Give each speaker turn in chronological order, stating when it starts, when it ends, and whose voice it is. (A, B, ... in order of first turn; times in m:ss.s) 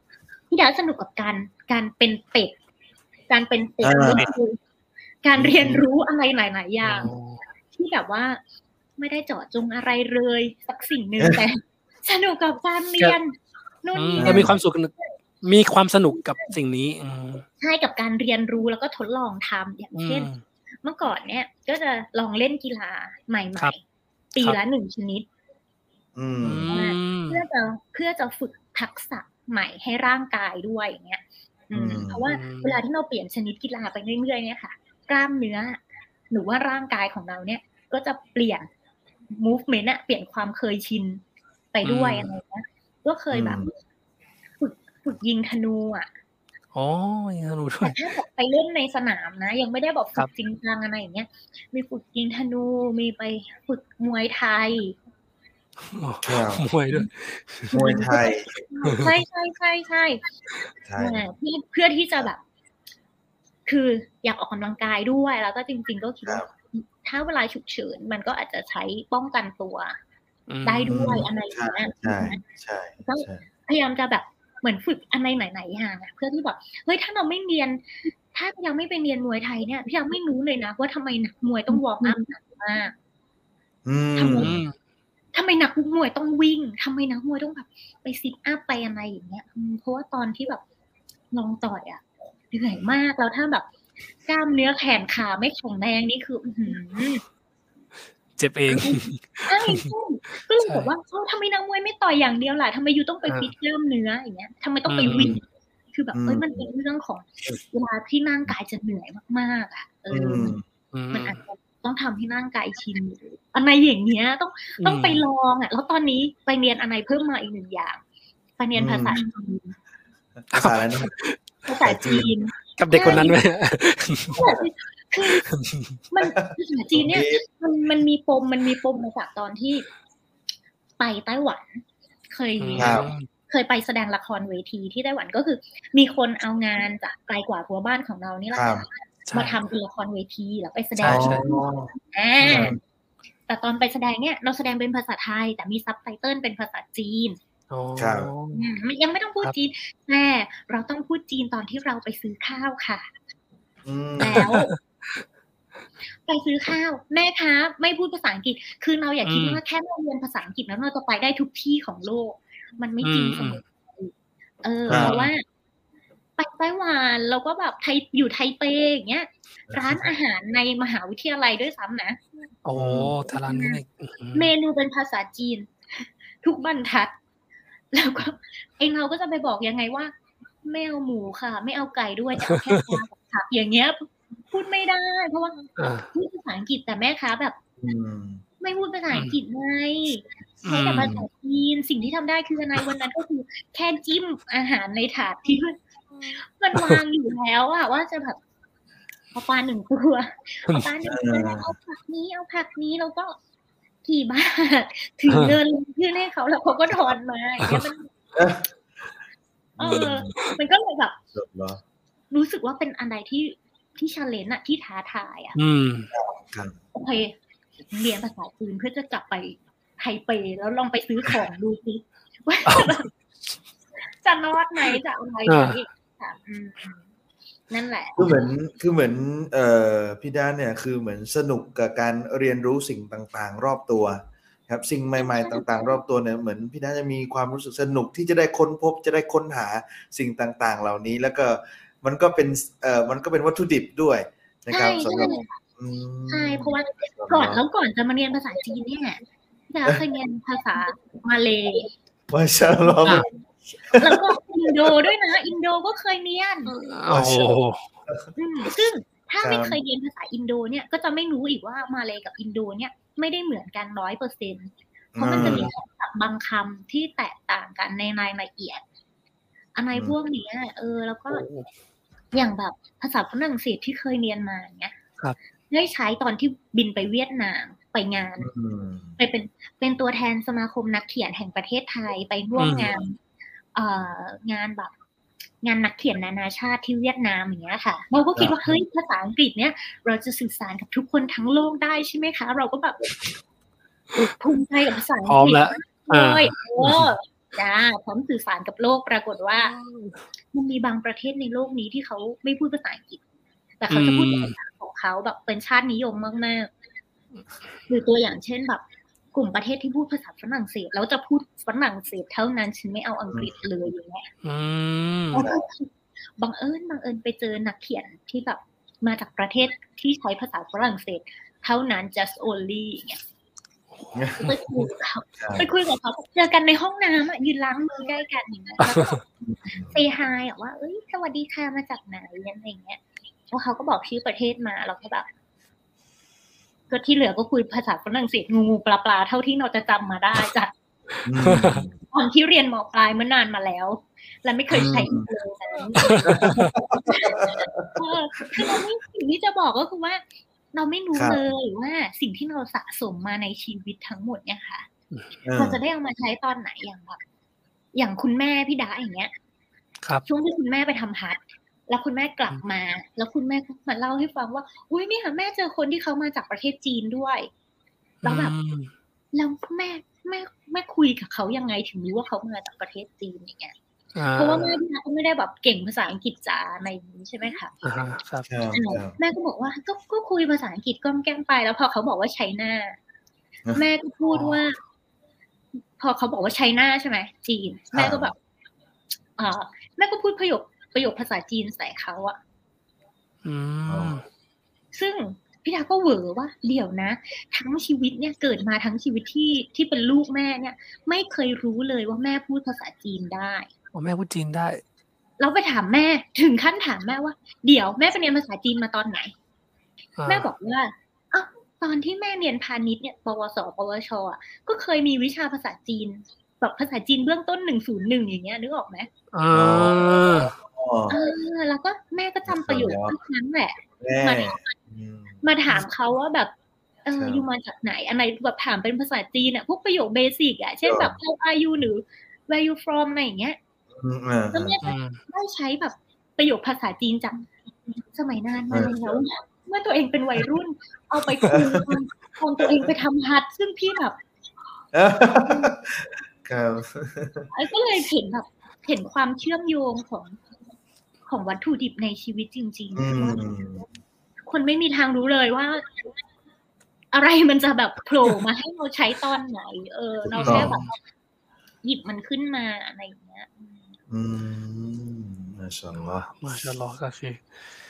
0:00.5-0:02.5 A
0:03.3-0:04.6 A
0:03.8-0:04.3 B
0:05.2-0:07.1 A
0:05.4-0:05.8 B
0:06.8-0:07.4 C
0:07.7-0:08.4 A
0:09.0-0:14.5 A
0:13.9-0:17.4 C
0:14.2-0:14.5 B
0:17.6-0:20.3 A
0:19.9-0:20.4 C
0:20.8-0:23.8 A
0:24.3-0:25.3 A
0:26.2-0:26.7 B
0:26.4-0:27.4 C
0:26.6-0:38.7 A
0:31.7-0:32.2 B
0:32.2-0:32.8 C
0:39.3-0:41.2 A
0:41.7-0:43.7 A
0:41.8-0:42.3 C
0:43.3-0:43.7 B
0:44.6-0:46.1 A
0:46.7-0:48.0 C
0:47.8-0:55.0 A
0:55.8-0:57.7 C
0:56.2-0:56.6 B
0:57.7-1:00.2 A
0:57.7-0:58.6 B
0:58.8-0:59.2 C
1:00.8-1:01.3 B
1:01.0-1:02.4 A
1:03.6-1:10.0 A
1:10.5-1:11.2 C
1:10.6-1:12.4 A
1:10.9-1:13.4 B
1:13.0-1:22.9 A
1:23.8-1:24.6 B
1:24.2-1:24.5 A
1:24.3-1:24.7 C
1:25.3-1:30.6 A
1:31.3-1:33.7 A
1:34.2-1:37.2 A
1:38.4-1:39.9 C
1:38.8-1:45.4 A
1:40.6-1:40.9 C
1:43.2-1:43.5 C
1:44.9-1:45.4 C
1:45.0-1:45.4 B
1:45.9-1:50.6 A
1:46.1-1:46.6 B
1:50.1-1:50.6 B
1:50.9-1:51.4 C
1:51.1-1:58.0 A
1:54.8-1:55.2 C
1:58.6-1:59.8 A
1:58.7-1:59.2 B
2:00.4-2:01.2 B
2:00.5-2:01.4 C
2:01.6-2:03.4 A
2:01.8-2:02.3 B
2:02.8-2:04.4 C
2:04.3-2:05.5 A
2:05.4-2:06.0 C
2:06.1-2:09.8 A
2:06.2-2:07.4 B
2:11.0-2:22.8 A
2:12.6-2:13.3 C
2:12.8-2:13.1 B
2:18.5-2:18.8 B
2:19.2-2:19.6 C
2:21.0-2:21.5 C
2:21.0-2:21.9 B
2:22.4-2:22.7 C
2:22.4-2:22.8 B
2:23.5-2:27.4 A
2:27.7-2:28.6 C
2:28.0-2:28.3 B
2:28.5-2:33.1 A
2:33.8-2:34.6 B
2:34.2-2:34.7 A
2:34.2-2:35.2 C
2:36.2-2:44.1 A
2:39.2-2:39.6 C
2:43.0-2:43.6 C
2:44.6-2:45.4 A
2:44.9-2:45.2 B
2:44.9-2:45.3 C
2:46.4-2:52.2 A
2:49.7-2:50.0 B
2:52.6-2:54.5 C
2:52.7-2:53.1 B
2:53.2-2:53.8 A
2:54.3-2:57.1 A
2:57.9-3:00.1 A
3:00.6-3:07.6 A
3:02.5-3:03.0 C
3:05.8-3:06.1 C
3:07.8-3:08.4 B
3:08.6-3:18.4 A
3:10.6-3:11.2 C
3:16.7-3:17.0 C
3:19.3-3:23.4 A
3:21.1-3:21.7 B
3:24.0-3:28.1 A
3:25.3-3:25.6 C
3:28.3-3:28.7 B
3:29.8-3:30.5 B
3:29.8-3:31.2 A
3:29.9-3:30.4 C
3:31.3-3:31.8 B
3:32.3-3:35.6 A
3:35.5-3:36.1 C
3:36.1-3:36.8 B
3:36.9-3:37.3 A
3:37.9-3:43.1 A
3:42.7-3:43.0 C
3:44.2-3:47.0 A
3:45.4-3:45.8 C
3:47.7-3:48.5 A
3:48.2-4:07.6 B
3:55.2-3:56.0 A
4:04.7-4:05.6 A
4:06.3-4:11.9 A
4:12.3-4:13.3 B
4:13.9-4:14.2 B
4:14.0-4:16.8 A
4:16.8-4:17.9 C
4:17.1-4:18.3 B
4:18.4-4:28.8 A
4:19.4-4:19.8 B
4:25.2-4:25.7 B
4:25.3-4:25.7 C
4:29.8-4:31.4 A
4:31.3-4:31.7 C
4:32.3-4:35.0 A
4:35.7-4:38.5 A
4:38.4-4:39.2 B
4:39.2-4:43.2 A
4:42.6-4:42.9 C
4:43.7-4:44.9 A
4:45.6-4:53.1 A
4:48.4-4:48.6 B
4:54.4-4:59.7 A
4:55.2-4:57.1 C
4:59.6-5:00.2 C
5:00.5-5:03.2 A
5:03.8-5:06.7 A
5:03.9-5:04.6 C
5:07.9-5:08.8 A
5:09.3-5:14.3 A
5:14.4-5:15.4 C
5:15.3-5:23.2 A
5:15.4-5:15.6 B
5:23.9-5:24.9 C
5:24.1-5:24.4 B
5:24.4-5:29.2 A
5:25.4-5:25.7 B
5:28.8-5:29.2 C
5:29.4-5:30.0 B
5:29.9-5:33.0 A
5:33.5-5:35.3 A
5:36.9-5:40.7 A
5:41.2-5:41.8 C
5:41.2-5:42.0 B
5:42.1-5:54.9 A
5:44.7-5:45.3 B
5:45.9-5:46.7 C
5:46.2-5:48.0 B
5:51.1-5:51.4 B
5:55.4-5:55.8 B
5:55.6-5:57.2 A
5:57.9-5:59.3 A
6:00.2-6:07.5 A
6:08.2-6:08.5 A
6:08.2-6:08.9 C
6:09.3-6:13.7 A
6:14.1-6:14.7 C
6:14.3-6:17.7 A
6:17.8-6:18.5 C
6:18.5-6:19.2 B
6:18.7-6:23.0 A
6:23.7-6:24.8 A
6:24.3-6:24.6 C
6:26.0-6:28.3 A
6:27.9-6:28.3 B
6:29.4-6:32.4 A
6:33.4-6:34.2 C
6:33.9-6:34.2 B
6:34.9-6:43.7 A
6:43.9-6:44.8 C
6:45.4-6:49.3 A
6:50.2-6:50.5 C
6:50.3-6:59.1 A
6:59.3-7:00.5 C
6:59.5-7:01.2 B
7:01.1-7:04.7 A
7:02.4-7:03.2 B
7:04.0-7:05.4 B
7:05.4-7:06.5 A
7:07.0-7:13.6 A
7:07.1-7:07.4 B
7:10.8-7:11.1 B
7:13.9-7:14.8 B
7:14.5-7:17.5 A
7:14.8-7:15.2 C
7:18.1-7:24.2 A
7:18.7-7:19.0 B
7:21.5-7:21.8 B
7:24.9-7:27.5 B
7:25.4-7:25.7 A
7:27.5-7:30.4 A
7:31.3-7:33.4 A
7:32.9-7:33.8 B
7:34.5-7:35.9 A
7:37.1-7:40.9 A
7:40.3-7:40.8 B
7:40.4-7:40.9 C
7:41.8-7:43.7 A
7:44.1-7:46.4 B
7:46.4-7:47.5 C